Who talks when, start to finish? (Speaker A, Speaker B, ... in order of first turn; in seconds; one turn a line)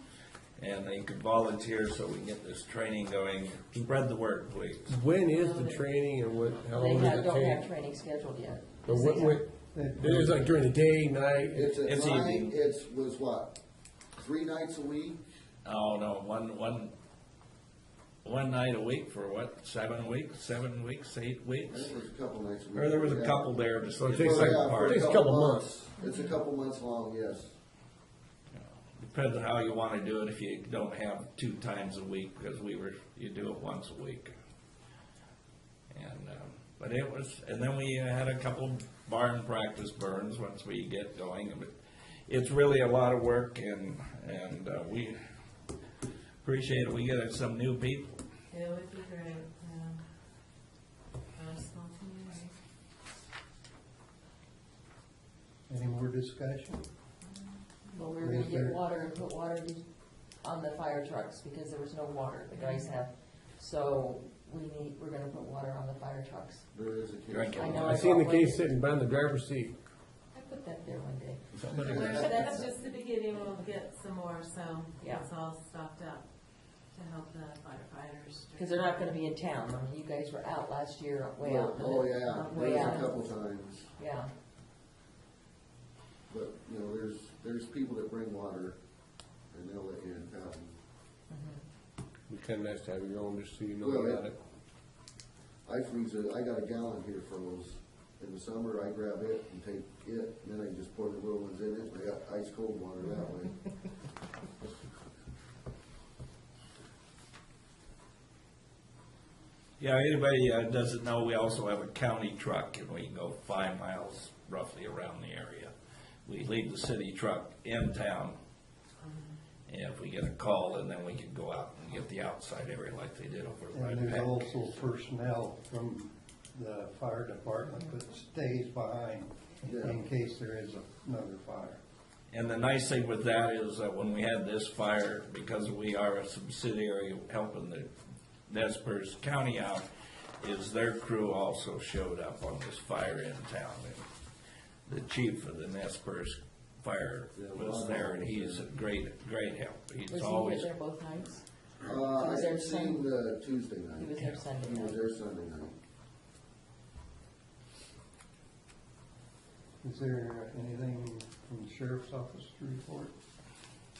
Speaker A: 0.6-5.0
Speaker B: 4.9-7.7
Speaker C: 5.3-5.8
Speaker C: 6.8-9.4
Speaker B: 8.8-11.8
Speaker D: 9.7-10.5
Speaker E: 11.5-13.6
Speaker A: 11.8-12.6
Speaker E: 14.2-15.2
Speaker A: 15.7-16.9
Speaker A: 18.2-21.9
Speaker E: 21.7-23.5
Speaker A: 22.7-25.1
Speaker B: 24.0-25.7
Speaker E: 24.1-27.5
Speaker A: 28.5-34.3
Speaker A: 35.9-41.7
Speaker A: 42.3-45.2
Speaker A: 46.4-48.1
Speaker F: 48.5-50.0
Speaker F: 51.4-52.5
Speaker D: 55.7-56.8
Speaker C: 57.9-59.8
Speaker D: 58.2-58.8
Speaker C: 60.4-66.7
Speaker E: 66.7-68.0
Speaker A: 67.3-68.1
Speaker C: 67.5-68.7
Speaker B: 67.8-69.8
Speaker C: 70.3-71.6
Speaker B: 71.6-72.2
Speaker E: 71.7-72.6
Speaker F: 71.8-76.3
Speaker C: 75.0-75.3
Speaker F: 76.9-79.2
Speaker C: 78.6-83.1
Speaker E: 81.4-83.9
Speaker F: 82.2-83.2
Speaker C: 84.0-84.3
Speaker E: 86.3-88.8
Speaker E: 89.5-90.7
Speaker C: 91.3-91.6
Speaker B: 92.3-94.3
Speaker E: 93.8-94.2
Speaker E: 95.6-103.6
Speaker A: 109.8-115.7
Speaker A: 116.2-118.4
Speaker A: 119.7-124.8
Speaker D: 123.7-131.8
Speaker E: 129.7-130.0
Speaker A: 132.3-137.9
Speaker A: 138.5-139.9
Speaker A: 140.4-144.0
Speaker A: 144.9-150.7
Speaker E: 147.3-148.7
Speaker C: 150.1-153.1
Speaker E: 151.8-155.8
Speaker C: 154.0-155.0
Speaker D: 159.8-163.1